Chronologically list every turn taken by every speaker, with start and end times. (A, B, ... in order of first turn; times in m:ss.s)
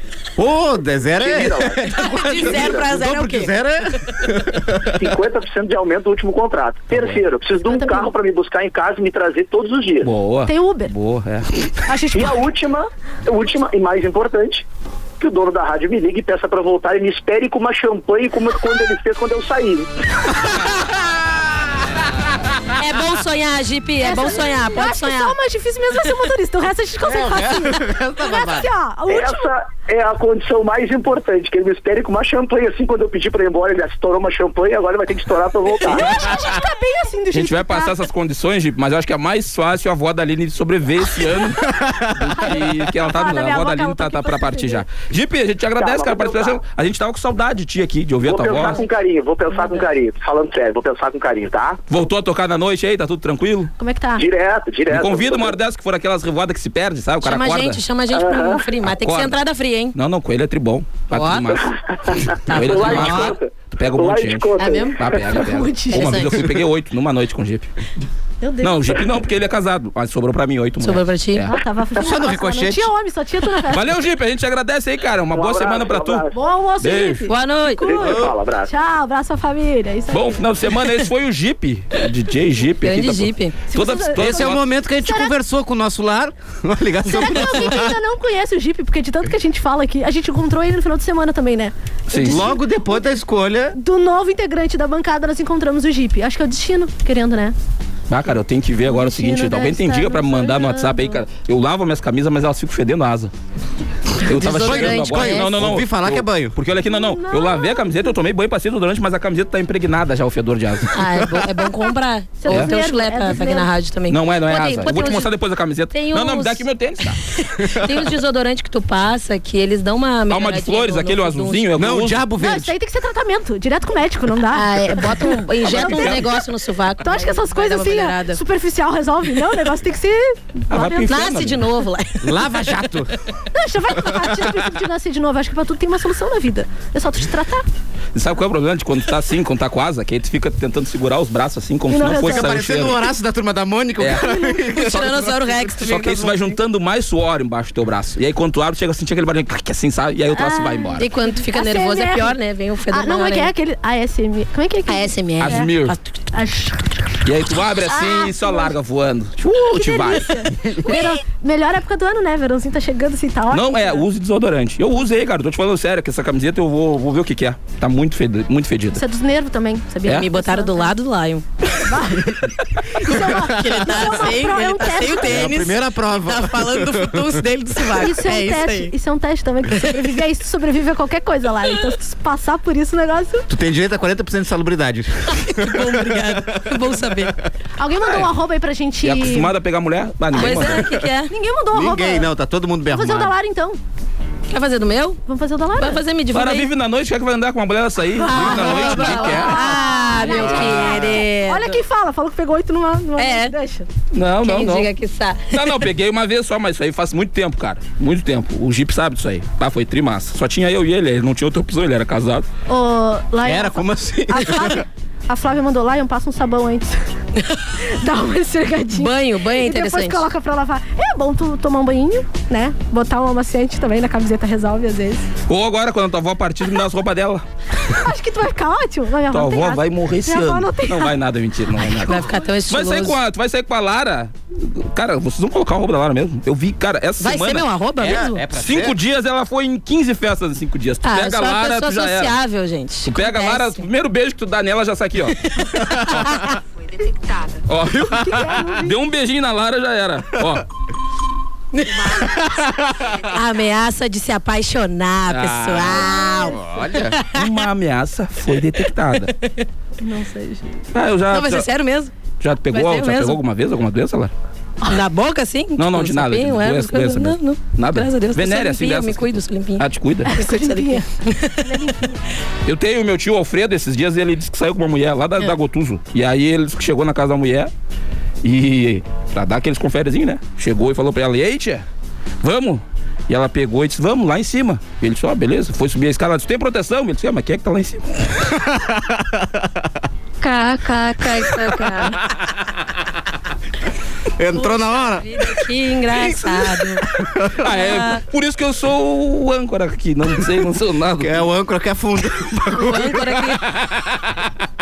0:00.4-0:04.9 A
0:01.2-0:02.8 B
0:01.9-0:03.5 C
0:05.0-0:10.1 B
0:06.9-0:07.2 D
0:07.7-0:08.1 E
0:10.0-0:11.7 D
0:10.5-0:10.9 E
0:11.9-0:12.4 E
0:12.1-0:14.6 B
0:15.2-0:19.9 B
0:22.8-0:25.4 C
0:24.0-0:29.5 E
0:27.0-0:28.7 A
0:29.1-0:36.2 B
0:35.9-0:38.0 E
0:37.3-0:48.8 D
0:42.4-0:44.8 E
0:45.8-0:46.6 B
0:48.2-0:51.8 B
0:49.5-0:49.8 E
0:51.9-0:53.7 D
0:53.8-0:54.2 E
0:54.2-0:55.6 B
0:54.9-0:57.8 D
0:57.2-1:00.0 C
0:58.1-0:58.6 B
0:58.8-0:59.4 D
0:59.9-1:01.8 D
1:01.1-1:01.6 C
1:02.0-1:05.0 B
1:02.5-1:07.7 D
1:02.5-1:03.3 C
1:04.6-1:05.2 C
1:05.1-1:06.1 E
1:05.9-1:06.5 C
1:08.4-1:09.0 E
1:08.6-1:11.5 D
1:10.8-1:11.5 C
1:11.5-1:13.9 E
1:12.0-1:12.9 A
1:13.7-1:16.3 D
1:15.3-1:16.3 B
1:16.3-1:20.4 E
1:16.8-1:17.3 D
1:17.3-1:17.9 C
1:17.8-1:18.7 B
1:18.0-1:18.3 A
1:20.1-1:24.6 D
1:22.8-1:23.6 C
1:23.7-1:25.3 E
1:24.2-1:28.0 A
1:27.1-1:32.9 E
1:32.1-1:32.5 D
1:32.2-1:33.8 A
1:33.8-1:37.6 E
1:38.1-1:43.3 D
1:38.8-1:41.2 E
1:44.2-1:51.0 D
1:44.2-1:45.7 C
1:44.5-1:46.6 A
1:46.9-1:48.1 E
1:50.9-1:55.3 C
1:52.4-1:53.7 E
1:54.1-1:57.2 D
1:55.9-1:56.6 C
1:57.3-2:01.7 C
2:00.3-2:02.2 D
2:01.8-2:02.7 A
2:02.4-2:06.4 E
2:04.5-2:08.4 C
2:05.7-2:06.2 D
2:07.0-2:11.3 E
2:10.7-2:11.6 D
2:11.1-2:12.4 C
2:12.2-2:13.1 A
2:13.5-2:17.6 E
2:18.1-2:23.0 D
2:21.9-2:22.5 E
2:22.1-2:25.6 A
2:24.0-2:31.1 D
2:24.2-2:24.6 E
2:24.7-2:26.5 C
2:30.3-2:32.4 E
2:31.0-2:33.5 C
2:32.9-2:35.7 E
2:34.9-2:36.2 C
2:35.4-2:36.0 D
2:36.3-2:37.2 E
2:37.2-2:40.7 D
2:37.9-2:38.7 E
2:39.7-2:44.0 E
2:43.5-2:49.0 D
2:48.9-2:50.9 E
2:50.1-2:51.4 C
2:51.8-2:55.6 E
2:53.0-2:58.9 C
2:55.2-2:57.5 A
2:58.0-3:03.5 E
3:03.5-3:07.0 A
3:05.5-3:07.4 C
3:07.8-3:09.5 E
3:08.0-3:08.3 D
3:09.0-3:10.9 D
3:10.3-3:11.3 C
3:11.3-3:12.3 E
3:11.7-3:13.4 A
3:12.9-3:13.8 E
3:14.5-3:15.2 C
3:15.3-3:16.0 E
3:15.8-3:16.7 C
3:16.3-3:19.8 D
3:18.2-3:21.8 C
3:18.4-3:23.9 E
3:23.2-3:23.5 C
3:24.1-3:24.9 D
3:24.4-3:25.8 C
3:25.5-3:32.5 D
3:32.7-3:37.0 E
3:33.4-3:34.8 A
3:37.8-3:45.3 E
3:38.9-3:40.3 C
3:45.5-3:47.4 D
3:47.8-3:51.2 E
3:49.3-3:57.7 D
3:52.0-3:53.2 C
3:57.2-3:58.4 C
3:58.0-3:59.0 A
3:58.5-4:02.4 D
4:01.0-4:03.8 C
4:03.0-4:05.4 D
4:05.5-4:06.5 C
4:07.7-4:10.7 D
4:08.0-4:09.0 E
4:11.7-4:12.6 C
4:12.4-4:12.8 A
4:13.2-4:16.6 C
4:15.3-4:16.1 D
4:16.2-4:17.2 A
4:17.2-4:17.4 C
4:17.3-4:19.3 D
4:20.0-4:20.8 E
4:20.9-4:21.7 D
4:21.3-4:22.1 C
4:22.4-4:24.3 D
4:22.7-4:23.4 C
4:24.9-4:31.7 C
4:25.8-4:30.3 D
4:30.3-4:31.1 E
4:31.6-4:32.2 E
4:32.7-4:37.7 D
4:38.4-4:41.8 D
4:42.4-4:48.5 D
4:48.7-4:49.7 A
4:50.4-4:52.2 C
4:54.4-4:55.3 A
4:54.5-4:57.0 C
4:57.2-4:57.9 A
4:57.6-5:01.5 D
4:57.6-4:58.2 C
5:01.2-5:04.4 A
5:02.7-5:03.7 C